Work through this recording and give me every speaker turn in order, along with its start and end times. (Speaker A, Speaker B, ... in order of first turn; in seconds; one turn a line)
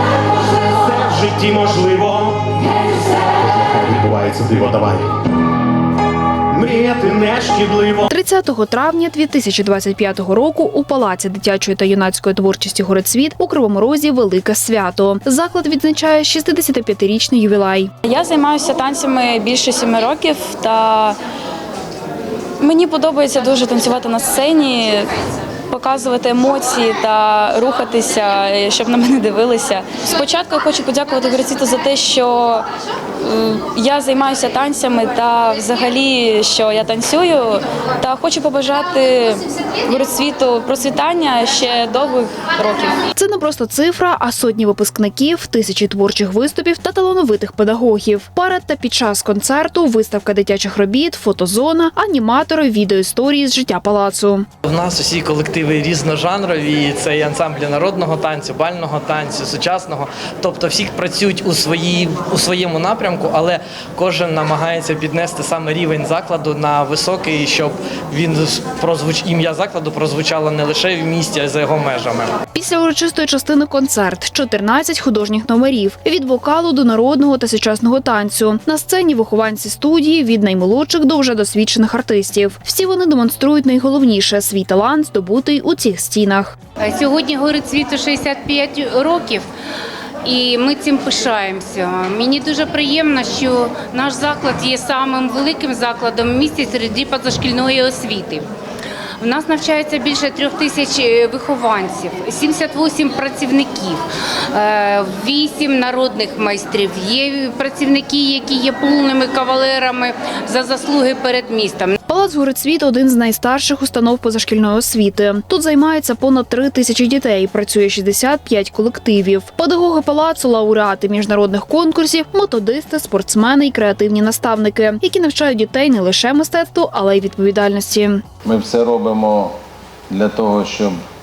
Speaker A: 0.6-2.6
Speaker A: 3.8-5.1
Speaker A: 6.5-8.1
Speaker B: 8.1-17.9
Speaker C: 18.0-21.2
Speaker C: 22.6-25.1
Speaker C: 25.7-32.6
Speaker C: 33.2-43.0
Speaker B: 43.1-54.5
Speaker D: 54.6-72.4
Speaker B: 72.5-86.5
Speaker E: 86.8-89.5
Speaker E: 90.2-98.5
Speaker E: 99.2-111.9
Speaker B: 112.1-128.2
Speaker F: 128.4-129.6
Speaker F: 130.1-131.0